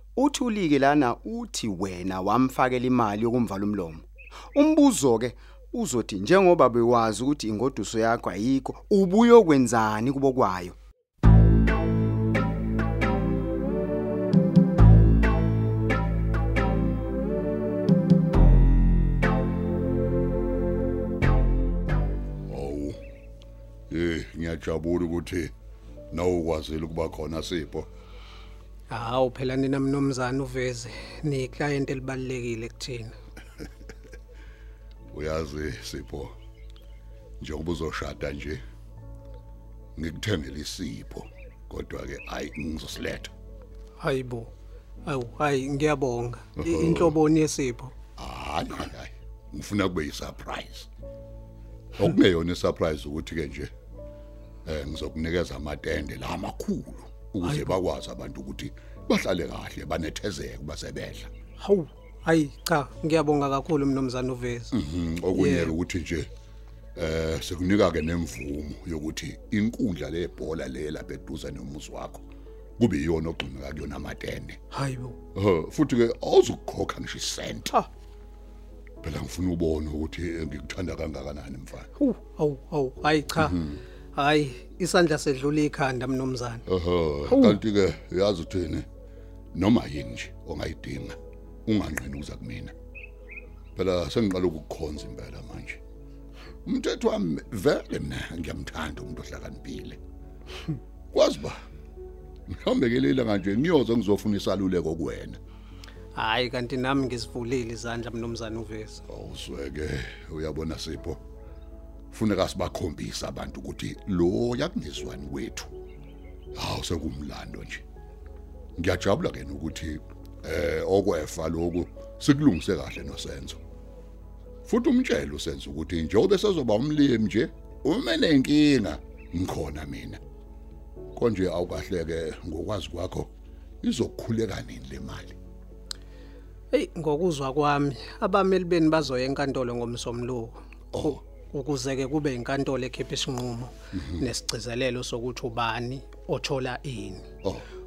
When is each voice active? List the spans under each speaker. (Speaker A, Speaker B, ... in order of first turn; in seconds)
Speaker A: 0.1-10.8
Speaker B: 22.5-23.0, 23.9-25.5, 26.1-27.9, 35.1-36.3, 37.4-38.6, 40.0-43.3, 46.6-47.1, 48.2-50.9, 51.9-53.7, 54.6-61.3, 64.7-66.3, 66.9-72.2, 72.8-74.6, 75.3-77.7, 79.0-81.9, 83.4-83.8, 86.7-88.9, 89.5-92.7, 93.8-95.8, 96.6-100.0, 101.1-101.6, 102.5-105.4, 109.1-111.2, 112.1-115.7, 116.5-117.8, 118.8-123.6, 124.6-130.2, 131.1-133.3, 133.8-135.4
Speaker C: 28.9-33.1, 44.0-44.5, 45.0-47.9, 57.4-57.8, 61.6-64.7, 65.3-65.7, 74.7-75.2, 82.0-83.6, 84.1-86.6, 87.2-87.6, 106.1-109.0, 136.7-147.3